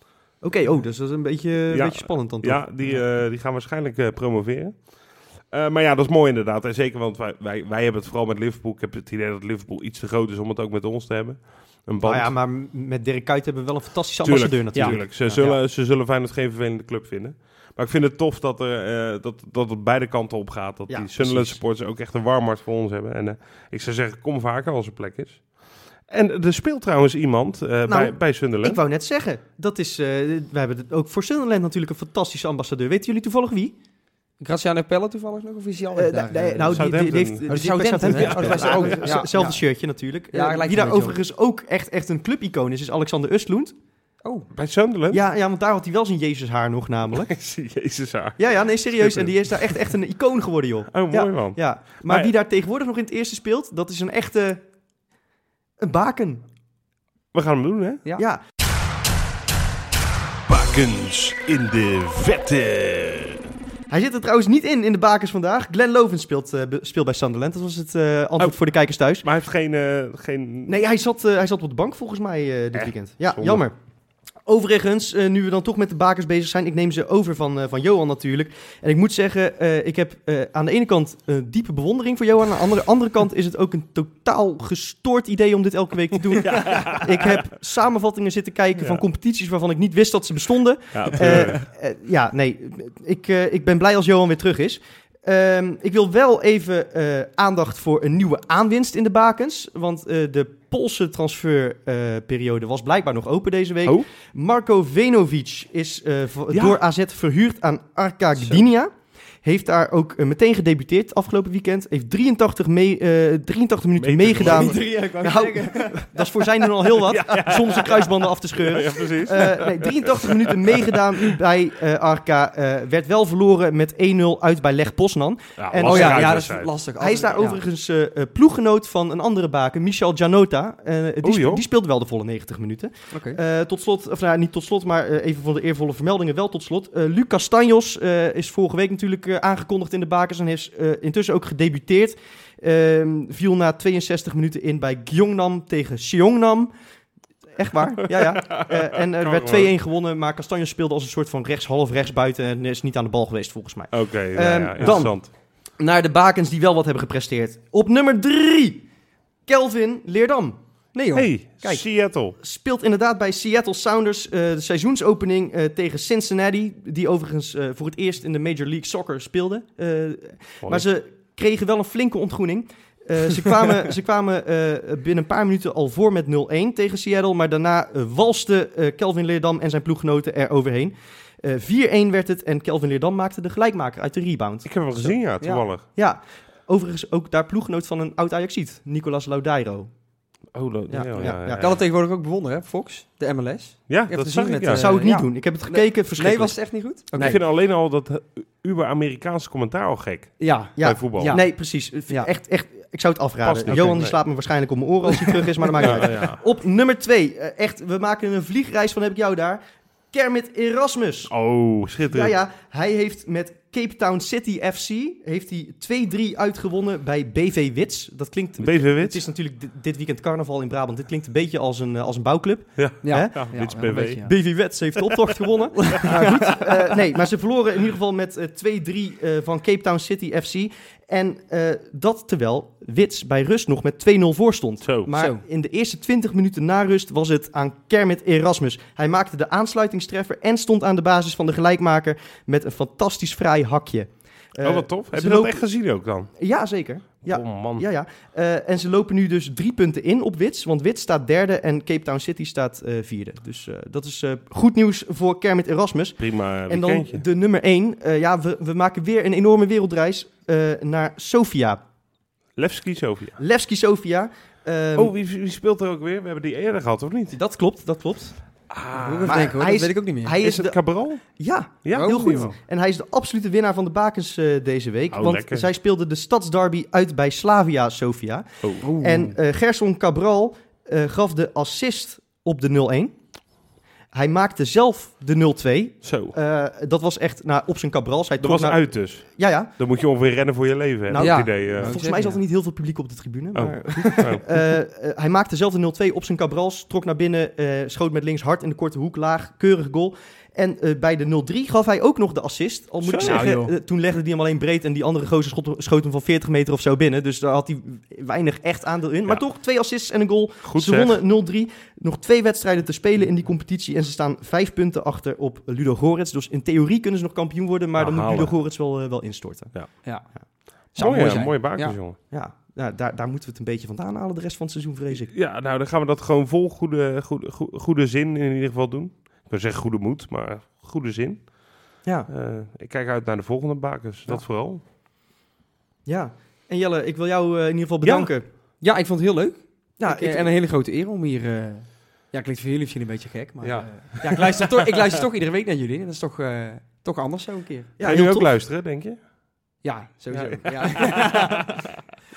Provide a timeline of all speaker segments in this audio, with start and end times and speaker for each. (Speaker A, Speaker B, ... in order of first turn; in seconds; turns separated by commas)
Speaker A: 0.4-2.6, Speaker B: 1.7-12.3, Speaker A: 12.0-15.4, Speaker B: 14.2-28.8, Speaker C: 14.7-15.6, Speaker A: 20.9-21.6, Speaker A: 27.9-33.8, Speaker C: 34.4-36.9, Speaker A: 36.0-43.7, Speaker B: 36.7-37.5, Speaker C: 37.5-39.6, Speaker B: 38.0-39.2, Speaker C: 40.3-41.2, Speaker B: 44.5-45.2, Speaker A: 45.1-47.3, Speaker B: 47.1-49.8, Speaker A: 48.4-54.6, Speaker B: 50.9-52.3, Speaker A: 55.8-56.5, Speaker B: 57.3-58.0, Speaker B: 60.5-63.5, Speaker A: 63.9-69.2, Speaker B: 69.2-70.8, Speaker A: 70.7-73.8, Speaker B: 72.8-73.6, Speaker A: 74.5-108.9, Speaker B: 86.4-87.5, Speaker B: 88.8-89.0, Speaker B: 90.9-91.6, Speaker B: 106.5-106.8, Speaker C: 108.4-108.6, Speaker A: 109.4-126.4, Speaker B: 114.0-114.8, Speaker C: 114.4-116.5, Speaker B: 117.0-121.3, Speaker B: 125.6-126.7, Speaker C: 125.8-127.6, Speaker A: 127.0-146.7, Speaker B: 131.2-131.6, Speaker C: 133.1-133.4, Speaker A: 147.6-158.8, Speaker B: 148.1-149.7, Speaker B: 153.9-155.3, Speaker A: 159.5-185.2, Speaker B: 161.1-162.4, Speaker B: 184.7-185.9, Speaker C: 185.4-185.7, Speaker A: 185.8-189.9, Speaker B: 190.5-191.8, Speaker A: 190.9-191.6, Speaker C: 191.5-197.4, Speaker B: 193.9-194.9, Speaker A: 194.7-197.4, Speaker B: 197.2-201.3, Speaker C: 200.4-202.3, Speaker A: 200.8-211.3, Speaker B: 203.4-204.2, Speaker B: 205.8-206.4, Speaker B: 211.3-212.4, Speaker A: 212.1-223.6, Speaker B: 218.6-219.2, Speaker B: 222.8-224.3, Speaker C: 223.0-224.3, Speaker A: 224.1-245.7, Speaker C: 225.8-226.7, Speaker B: 234.8-235.1, Speaker C: 235.1-235.4, Speaker B: 244.6-246.3, Speaker A: 246.3-261.8, Speaker B: 247.3-247.9, Speaker B: 256.2-257.2, Speaker B: 262.6-263.4, Speaker A: 263.4-265.1, Speaker B: 265.0-267.4, Speaker A: 267.3-268.4, Speaker B: 268.7-269.5, Speaker C: 268.9-270.4, Speaker A: 269.3-283.2, Speaker B: 270.4-272.6, Speaker C: 271.9-272.5, Speaker B: 275.1-275.7, Speaker C: 278.8-279.4, Speaker A: 284.1-289.7, Speaker B: 286.0-286.4, Speaker B: 288.4-292.0, Speaker A: 291.1-319.7, Speaker C: 291.1-292.4, Speaker B: 293.6-294.5, Speaker C: 294.1-294.3, Speaker B: 303.0-303.5, Speaker C: 303.2-303.7, Speaker B: 310.6-311.2, Speaker B: 318.0-318.6, Speaker C: 320.9-322.0, Speaker B: 320.9-322.2, Speaker A: 322.3-325.3, Speaker B: 325.2-331.5, Speaker A: 332.0-332.3, Speaker B: 332.3-334.8, Speaker A: 336.1-338.5, Speaker B: 338.0-338.3, Speaker C: 338.8-347.9, Speaker A: 340.0-340.5, Speaker B: 343.6-345.1, Speaker A: 348.0-348.5, Speaker B: 348.0-349.2, Speaker C: 349.8-351.8, Speaker B: 350.3-351.6